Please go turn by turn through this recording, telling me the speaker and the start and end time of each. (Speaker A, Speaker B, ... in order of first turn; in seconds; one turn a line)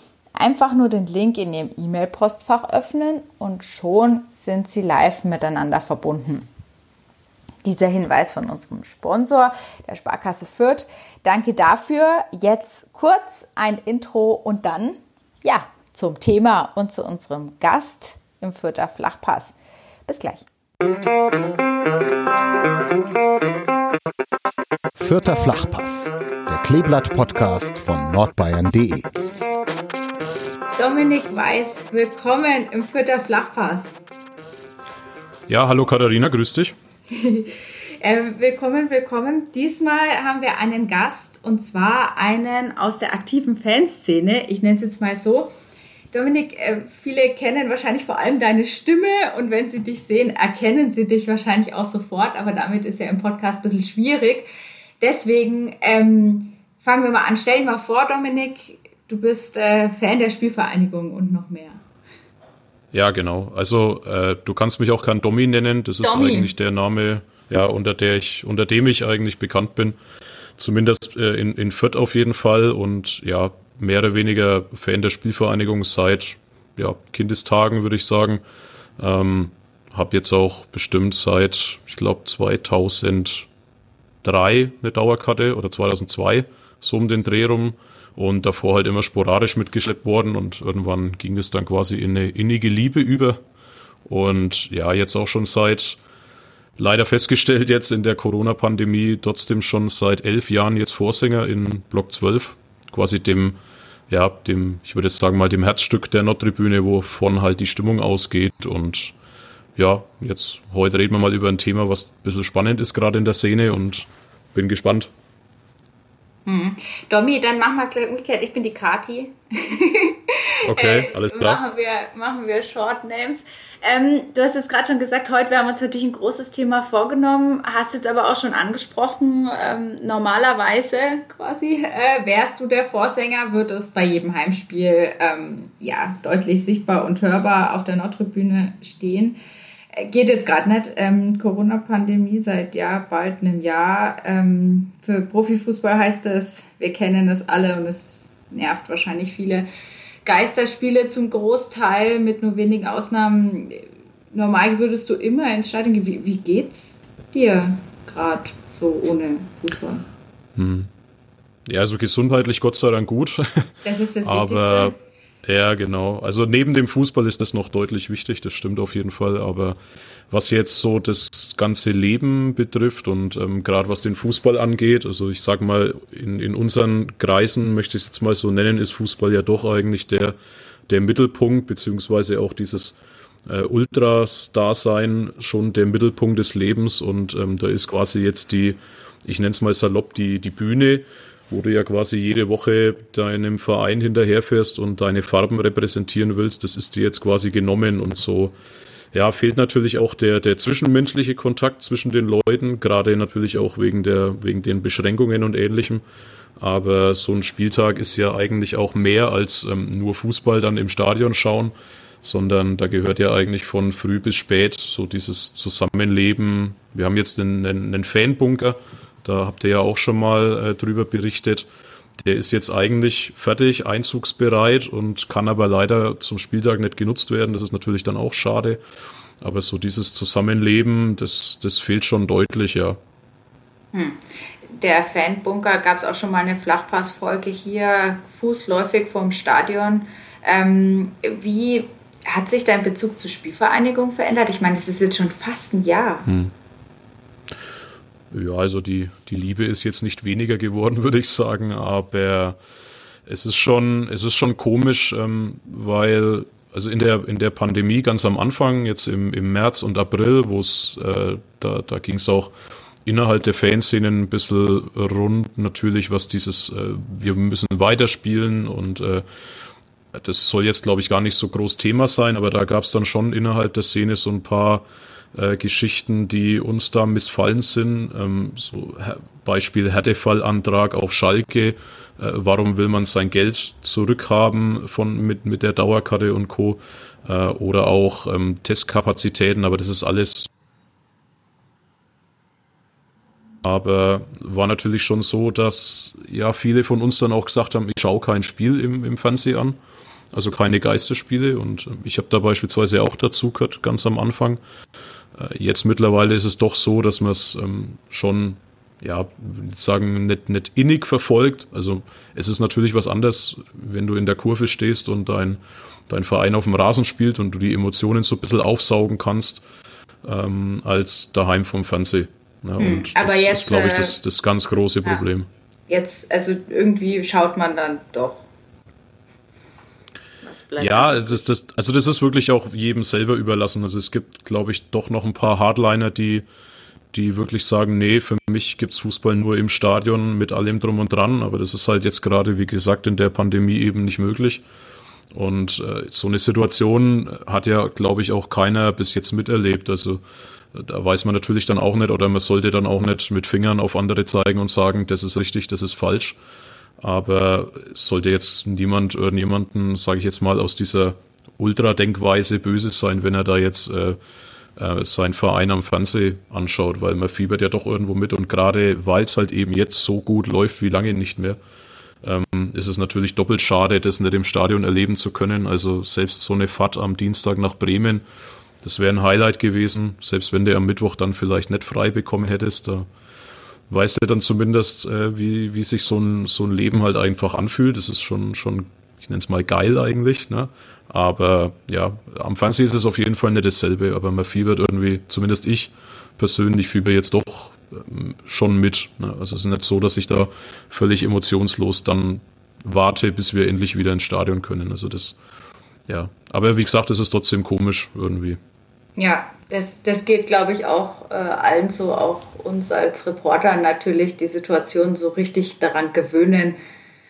Speaker A: 0.4-6.5
Speaker A: 7.6-19.6
Speaker A: 20.1-20.5
Speaker B: 25.0-29.1
Speaker A: 30.8-34.0
Speaker C: 35.5-36.8
Speaker A: 37.1-45.5
Speaker A: 46.1-54.5
Speaker A: 55.0-61.8
Speaker C: 62.9-70.0
Speaker A: 66.0-66.5
Speaker C: 70.6-78.4
Speaker C: 79.0-83.5
Speaker C: 84.2-93.4
Speaker C: 94.1-96.0
Speaker C: 96.8-103.6
Speaker C: 104.1-109.1
Speaker C: 109.8-115.1
Speaker A: 116.5-139.4
Speaker C: 120.7-121.6
Speaker A: 139.9-149.7
Speaker A: 150.2-160.1
Speaker C: 160.6-160.9
Speaker C: 161.7-169.8
Speaker A: 163.8-164.9
Speaker C: 170.3-180.3
Speaker C: 180.9-182.9
Speaker C: 183.5-198.5
Speaker C: 199.1-206.0
Speaker C: 206.6-221.7
Speaker C: 222.2-228.8
Speaker C: 229.4-233.0
Speaker A: 233.9-246.3
Speaker C: 246.3-246.5
Speaker C: 248.3-252.6
Speaker C: 253.3-262.5
Speaker C: 263.1-269.2
Speaker C: 270.1-290.5
Speaker C: 293.6-299.8
Speaker C: 300.3-304.6
Speaker C: 305.4-319.6
Speaker C: 320.2-325.5
Speaker A: 322.8-324.2
Speaker A: 325.9-328.4
Speaker A: 330.4-331.5
Speaker C: 330.8-336.4
Speaker C: 337.1-344.6
Speaker C: 345.3-350.2
Speaker C: 350.7-356.4
Speaker C: 357.0-364.2
Speaker C: 364.8-371.6
Speaker C: 372.2-378.2
Speaker C: 378.8-383.1
Speaker C: 383.9-405.4
Speaker C: 406.1-408.6
Speaker A: 409.2-416.8